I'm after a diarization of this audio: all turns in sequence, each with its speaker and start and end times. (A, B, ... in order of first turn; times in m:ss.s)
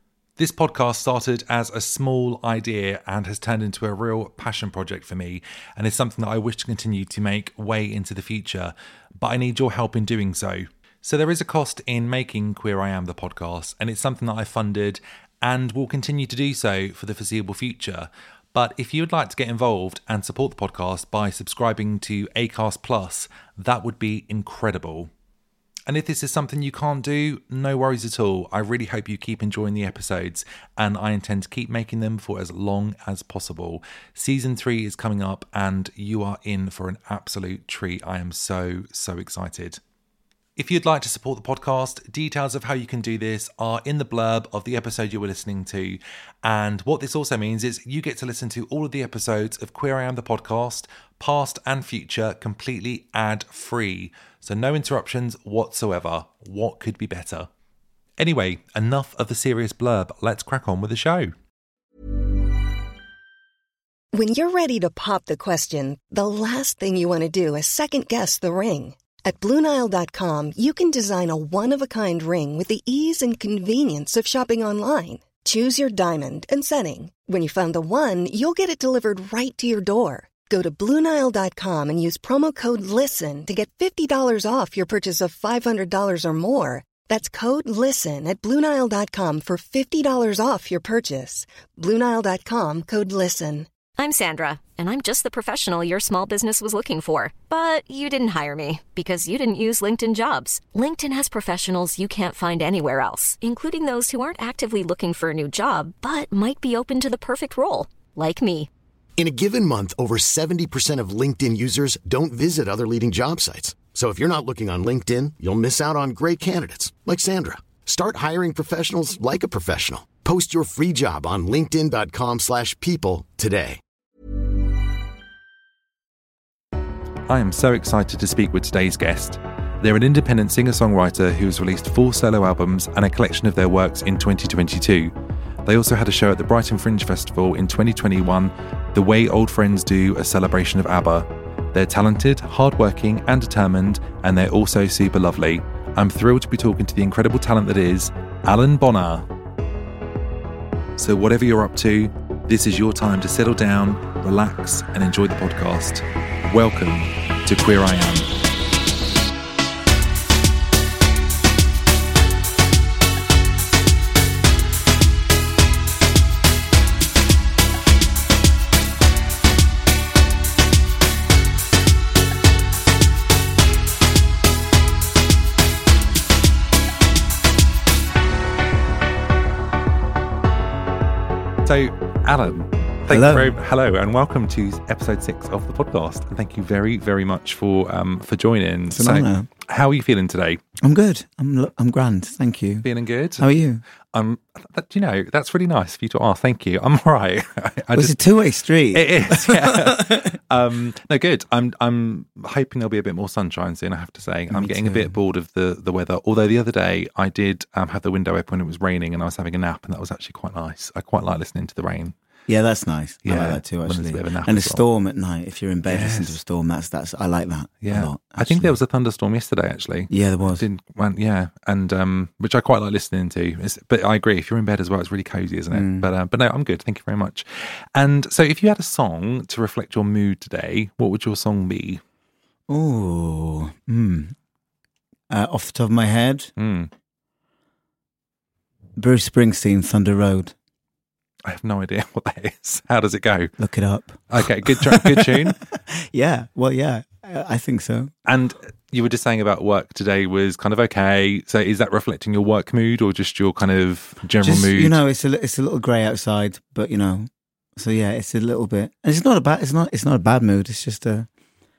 0:00.4-0:25.1 A
0:25.9-0:39.8 A
0:40.6-0:57.5 A
0:58.2-1:01.3 A
1:04.1-1:33.7 B
1:34.0-1:48.7 C
1:49.2-2:03.8 D
2:07.3-2:15.1 A
2:15.7-2:29.3 A
2:31.0-2:38.3 A
3:01.6-3:10.6 A
3:03.1-3:03.6 E
3:08.9-3:09.5 E
3:10.8-3:12.9 E
3:12.8-3:13.5 A
3:13.4-3:13.8 E
3:14.1-3:18.2 A
3:17.9-3:20.4 E
3:18.9-3:32.2 A
3:24.5-3:25.2 E
3:32.5-3:38.7 E
3:33.2-3:34.8 A
3:35.8-3:36.4 A
3:37.8-3:52.0 A
3:40.1-3:40.6 E
3:45.7-3:46.1 E
3:52.7-3:54.4 E
3:55.3-3:56.5 E
3:56.6-3:56.9 A
3:59.0-4:00.6 E
4:01.4-4:03.5 A
4:03.6-4:08.1 E
4:04.3-4:05.6 A
4:08.3-4:15.0 A
4:14.4-4:21.3 E